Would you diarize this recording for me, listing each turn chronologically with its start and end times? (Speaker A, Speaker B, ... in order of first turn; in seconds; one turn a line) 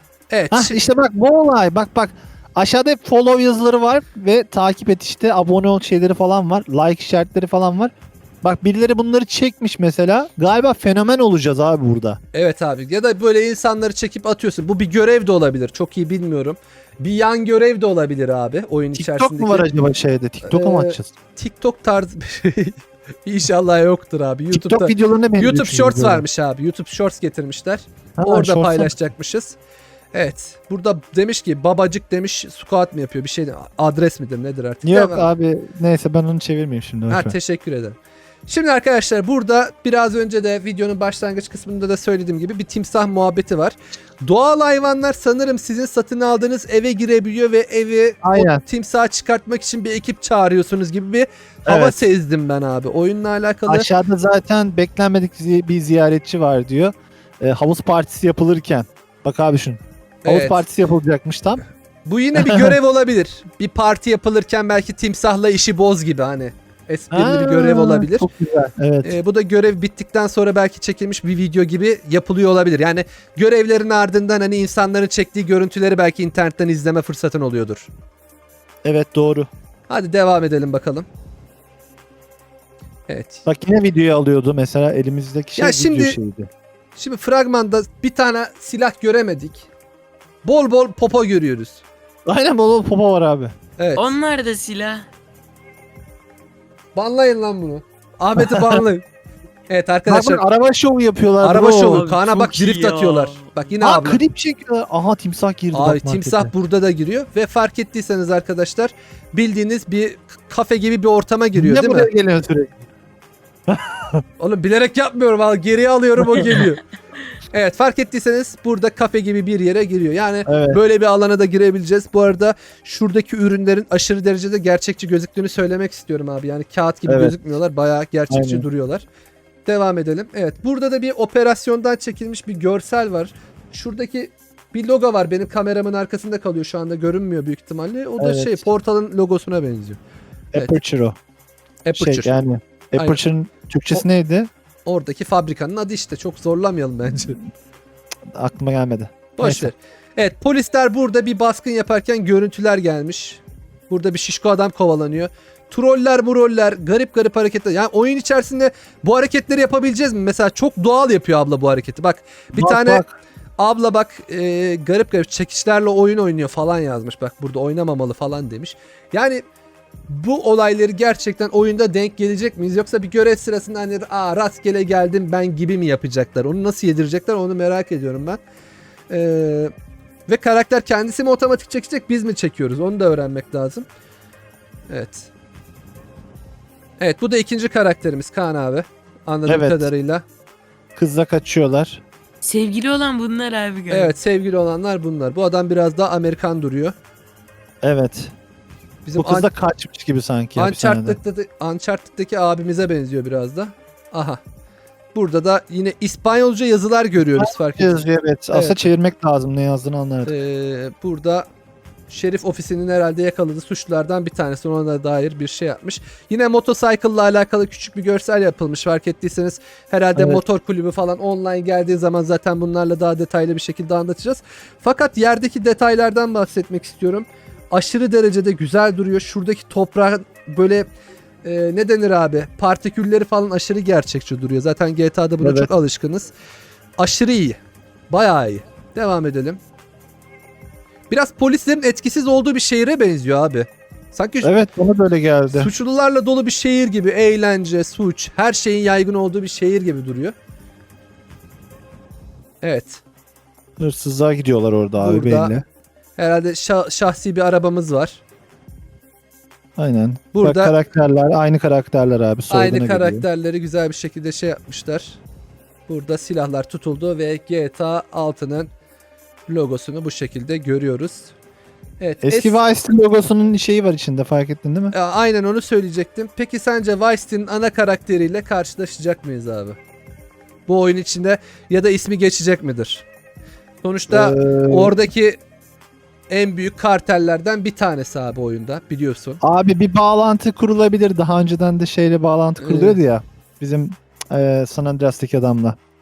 Speaker A: 0.3-0.8
Speaker B: 0.5-12.2
Speaker A: 12.3-19.7
Speaker B: 18.9-21.1
Speaker A: 20.4-29.6
Speaker B: 24.5-26.2
Speaker B: 28.2-28.9
Speaker A: 30.1-35.3
Speaker B: 34.8-37.3
Speaker A: 37.1-53.9
Speaker B: 48.2-48.6
Speaker B: 51.6-52.0
Speaker B: 53.7-61.6
Speaker A: 60.2-60.6
Speaker A: 62.0-68.3
Speaker B: 62.4-62.8
Speaker B: 67.1-69.1
Speaker A: 69.0-77.9
Speaker B: 78.8-79.5
Speaker A: 79.9-81.0
Speaker A: 83.1-83.4
Speaker B: 83.5-86.5
Speaker A: 85.6-86.2
Speaker A: 87.0-89.7
Speaker A: 90.4-91.8
Speaker B: 92.2-93.5
Speaker A: 93.8-94.1
Speaker C: 94.0-95.1
Speaker A: 97.0-99.0
Speaker B: 98.4-98.8
Speaker A: 99.7-100.4
Speaker B: 100.1-102.0
Speaker A: 101.4-104.2
Speaker C: 101.9-103.5
Speaker B: 103.8-106.5
Speaker A: 105.7-112.1
Speaker B: 111.5-112.8
Speaker B: 113.7-114.2
Speaker A: 114.4-116.8
Speaker A: 117.5-129.0
Speaker B: 120.5-120.8
Speaker B: 127.1-127.3
Speaker B: 128.3-128.7
Speaker A: 129.7-140.0
Speaker B: 138.2-138.7
Speaker B: 140.5-141.2
Speaker A: 141.8-142.3
Speaker B: 141.9-144.5
Speaker A: 144.8-147.4
Speaker B: 148.3-149.7
Speaker A: 149.3-163.0
Speaker B: 162.5-163.1
Speaker A: 163.6-169.4
Speaker A: 170.1-178.4
Speaker A: 179.1-179.7
Speaker A: 180.3-183.8
Speaker A: 184.9-185.3
Speaker A: 187.0-190.2
Speaker B: 189.5-189.9
Speaker B: 190.9-192.0
Speaker C: 192.4-194.1
Speaker A: 193.9-196.9
Speaker B: 197.8-198.3
Speaker A: 199.0-199.5
Speaker B: 199.2-201.2
Speaker A: 200.6-204.4
Speaker A: 205.1-208.8
Speaker B: 207.2-210.3
Speaker A: 210.2-211.5
Speaker A: 212.1-230.9
Speaker B: 220.2-220.4
Speaker A: 231.4-236.3
Speaker B: 235.4-235.7
Speaker A: 237.0-237.6
Speaker A: 238.1-239.6
Speaker A: 241.1-244.5
Speaker B: 244.4-245.7
Speaker A: 245.5-250.3
Speaker A: 252.6-253.0
Speaker B: 253.8-255.6
Speaker A: 255.0-255.5
Speaker A: 256.2-258.2
Speaker B: 259.8-263.2
Speaker A: 260.3-260.7
Speaker A: 262.5-265.2
Speaker A: 265.9-268.7
Speaker A: 269.5-271.3
Speaker A: 272.0-272.6
Speaker B: 272.2-274.9
Speaker A: 274.9-279.8
Speaker A: 280.7-283.1
Speaker A: 283.8-285.4
Speaker B: 284.1-285.0
Speaker A: 286.3-289.4
Speaker B: 289.4-295.8
Speaker A: 292.6-293.0